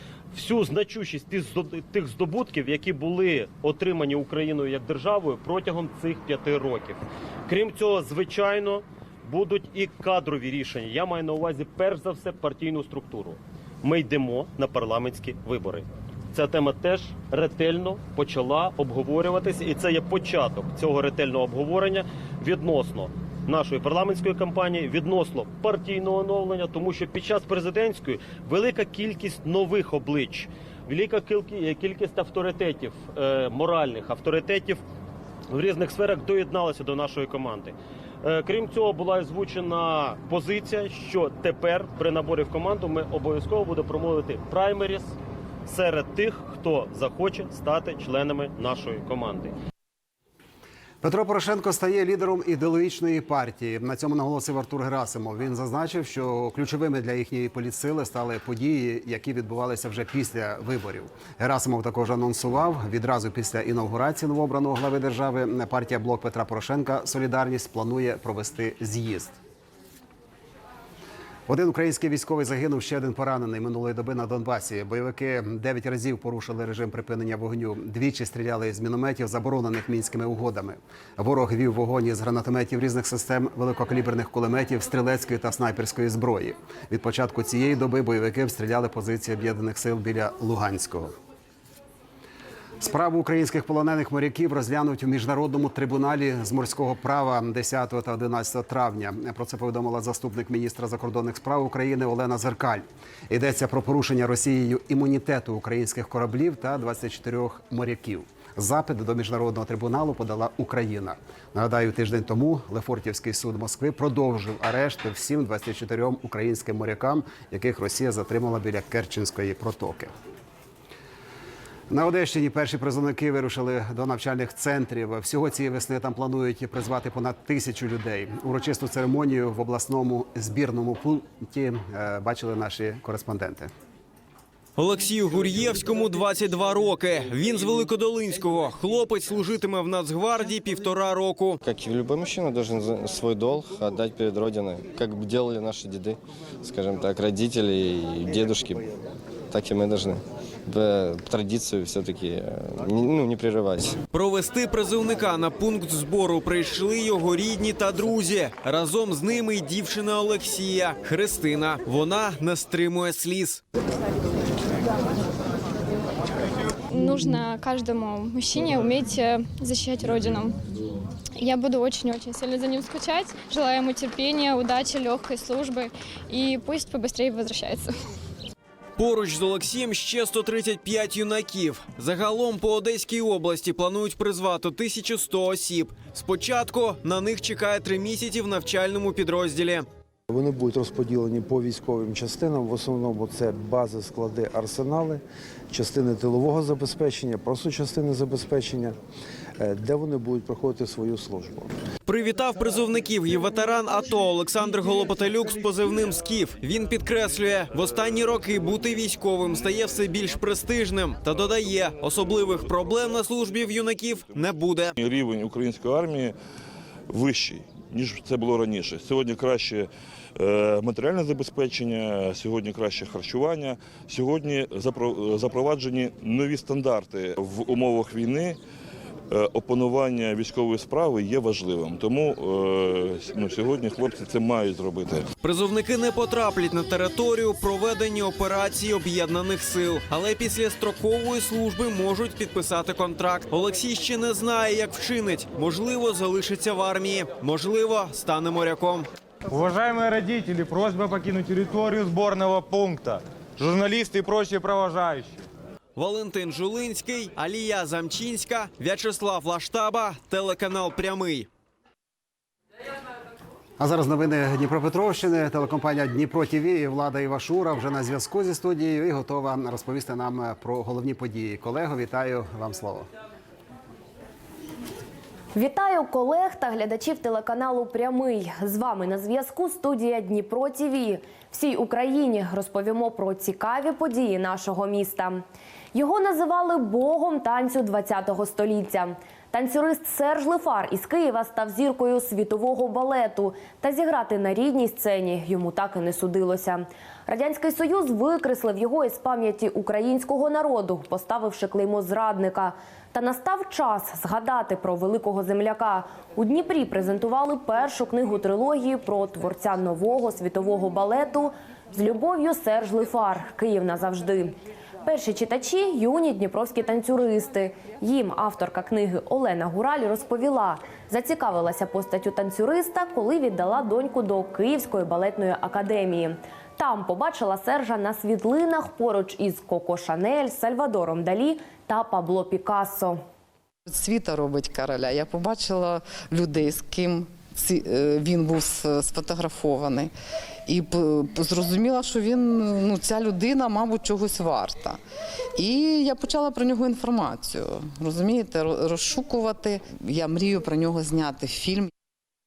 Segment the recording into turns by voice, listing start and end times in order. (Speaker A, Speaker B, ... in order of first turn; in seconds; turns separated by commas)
Speaker A: 0.3-34.8, Speaker A: 35.5-45.1, Speaker A: 45.6-49.5, Speaker B: 51.0-69.4, Speaker B: 71.5-91.1, Speaker B: 92.8-120.1, Speaker B: 121.9-133.7, Speaker C: 134.8-141.6, Speaker D: 141.6-148.8, Speaker D: 149.5-154.0, Speaker C: 154.1-163.6, Speaker E: 166.9-170.6, Speaker E: 171.4-177.9, Speaker C: 179.0-189.9, Speaker F: 190.3-199.0, Speaker F: 199.6-201.7, Speaker C: 202.1-214.9, Speaker G: 215.0-216.3, Speaker G: 217.1-228.6, Speaker G: 229.3-235.3, Speaker C: 235.4-249.1, Speaker H: 249.5-255.4, Speaker C: 255.9-261.5, Speaker B: 263.8-273.1, Speaker I: 275.5-285.4, Speaker I: 285.9-314.5, Speaker I: 315.0-333.2, Speaker J: 333.9-340.1, Speaker J: 340.6-345.0, Speaker J: 345.6-351.9